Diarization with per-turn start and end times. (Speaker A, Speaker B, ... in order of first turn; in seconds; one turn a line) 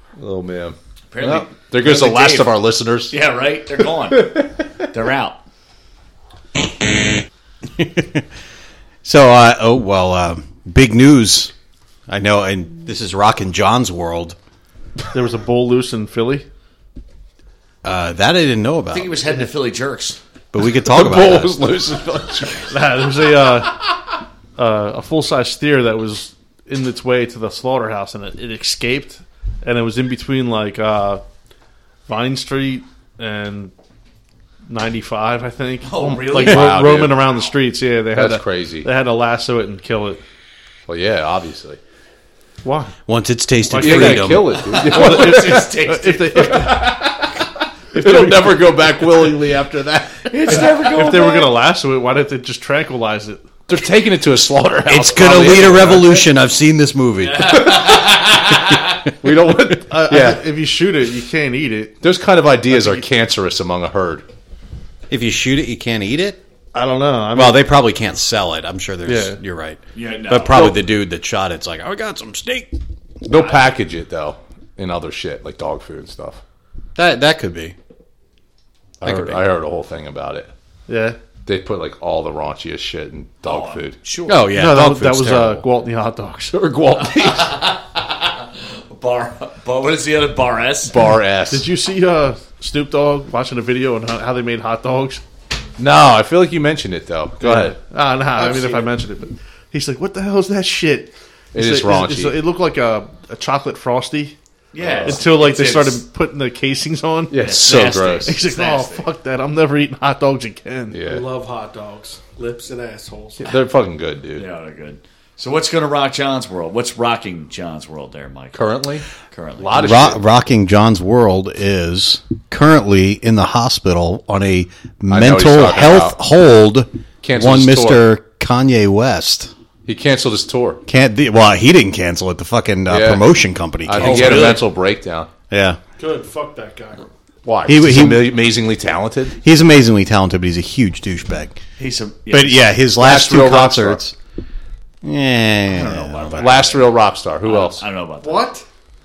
Speaker A: 0.2-3.1
Speaker B: 1.1-2.5
Speaker B: 3.1-4.4
Speaker A: 4.1-4.5
Speaker B: 4.9-5.4
Speaker C: 7.8-8.2
Speaker C: 9.0-11.5
Speaker C: 12.1-14.4
Speaker D: 15.1-16.4
Speaker C: 17.8-19.2
Speaker B: 18.9-20.2
Speaker C: 20.5-21.6
Speaker A: 20.9-22.8
Speaker D: 22.7-23.9
Speaker D: 24.6-31.2
Speaker D: 32.1-33.7
Speaker D: 34.7-40.2
Speaker B: 35.8-37.1
Speaker A: 36.3-37.4
Speaker A: 38.1-38.9
Speaker A: 40.9-41.8
Speaker D: 42.6-42.9
Speaker C: 43.1-44.5
Speaker D: 43.7-47.0
Speaker A: 43.8-45.8
Speaker B: 44.6-46.7
Speaker A: 46.4-50.9
Speaker D: 47.9-49.2
Speaker B: 50.3-51.6
Speaker D: 50.5-53.5
Speaker A: 53.7-56.2
Speaker C: 54.9-57.7
Speaker B: 57.2-59.0
Speaker A: 57.6-57.9
Speaker A: 59.2-60.4
Speaker D: 59.9-62.0
Speaker A: 62.0-64.2
Speaker D: 62.7-63.0
Speaker C: 65.1-66.4
Speaker D: 66.7-67.6
Speaker C: 67.3-72.8
Speaker D: 69.0-69.4
Speaker B: 69.9-70.7
Speaker A: 73.2-76.4
Speaker B: 73.3-73.6
Speaker C: 77.0-77.7
Speaker A: 79.0-80.5
Speaker C: 79.0-79.4
Speaker D: 80.9-81.2
Speaker A: 81.5-84.0
Speaker B: 83.4-84.4
Speaker C: 84.3-85.7
Speaker D: 84.5-86.7
Speaker A: 86.5-87.6
Speaker B: 87.1-91.0
Speaker A: 90.9-91.7
Speaker D: 91.5-95.2
Speaker A: 95.8-97.8
Speaker D: 97.4-104.3
Speaker E: 98.4-98.9
Speaker A: 101.5-102.4
Speaker B: 104.7-106.0
Speaker A: 104.8-105.2
Speaker D: 105.0-107.5
Speaker A: 107.3-108.3
Speaker B: 107.4-109.1
Speaker D: 108.2-111.0
Speaker A: 110.9-111.3
Speaker E: 111.0-113.5
Speaker A: 113.4-114.5
Speaker B: 114.3-118.7
Speaker A: 118.5-119.0
Speaker B: 119.3-119.8
Speaker A: 119.6-120.2
Speaker C: 119.8-129.5
Speaker A: 125.1-126.2
Speaker A: 127.2-128.0
Speaker A: 129.8-130.8
Speaker C: 130.9-134.6
Speaker A: 132.9-135.3
Speaker B: 134.0-134.7
Speaker C: 135.5-135.8
Speaker E: 136.0-137.1
Speaker A: 137.4-139.3
Speaker C: 137.7-138.3
Speaker C: 139.4-141.6
Speaker B: 141.8-142.7
Speaker C: 142.3-144.1
Speaker A: 143.0-144.0
Speaker C: 145.0-146.5
Speaker B: 145.7-148.5
Speaker A: 146.4-147.8
Speaker E: 148.2-148.6